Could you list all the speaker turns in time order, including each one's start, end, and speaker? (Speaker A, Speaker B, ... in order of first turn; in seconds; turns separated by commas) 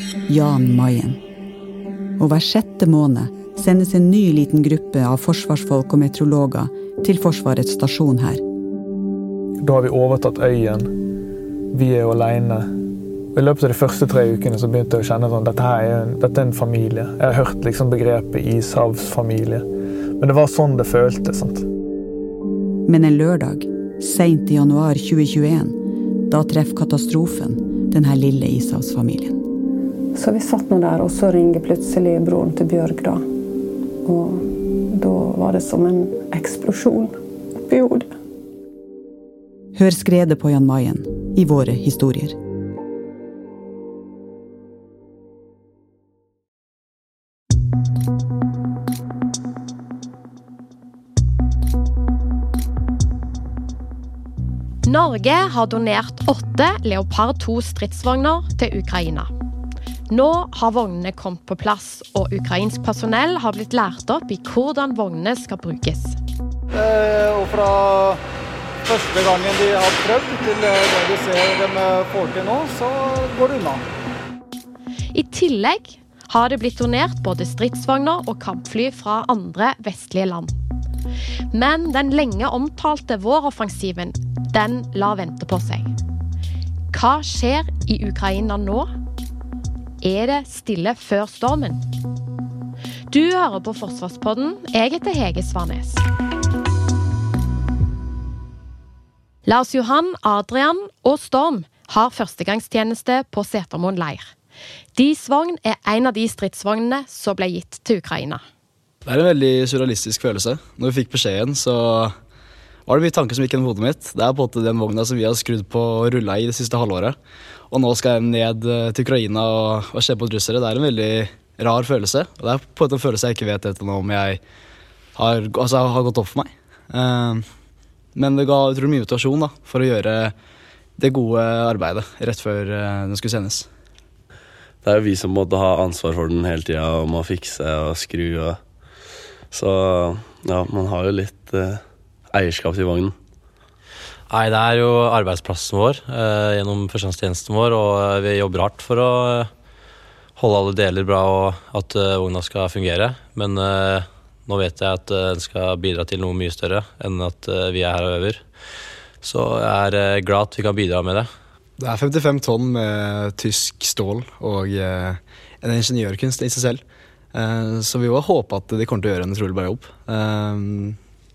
Speaker A: 0.3-1.2, Speaker A: 2.2-8.4, Speaker B: 9.6-10.9, Speaker B: 11.7-12.7, Speaker B: 13.3-19.6, Speaker B: 20.2-21.6, Speaker A: 22.8-29.4, Speaker C: 30.1-33.3, Speaker C: 34.0-38.1, Speaker A: 39.7-42.4, Speaker D: 54.9-59.3, Speaker D: 60.1-66.2, Speaker E: 66.7-68.2, Speaker E: 68.8-73.8, Speaker D: 75.1-80.5, Speaker D: 81.5-85.9, Speaker D: 86.9-88.9, Speaker D: 90.0-91.8, Speaker D: 93.1-96.0, Speaker D: 99.5-104.3, Speaker D: 104.9-108.4, Speaker F: 109.0-112.2, Speaker F: 112.9-117.2, Speaker F: 117.7-124.4, Speaker F: 125.1-127.5, Speaker F: 128.1-130.3, Speaker F: 131.0-133.7, Speaker G: 134.8-138.6, Speaker G: 139.5-143.2, Speaker H: 144.3-149.5, Speaker H: 150.3-158.4, Speaker H: 159.2-161.3, Speaker F: 161.8-166.8, Speaker F: 167.3-171.0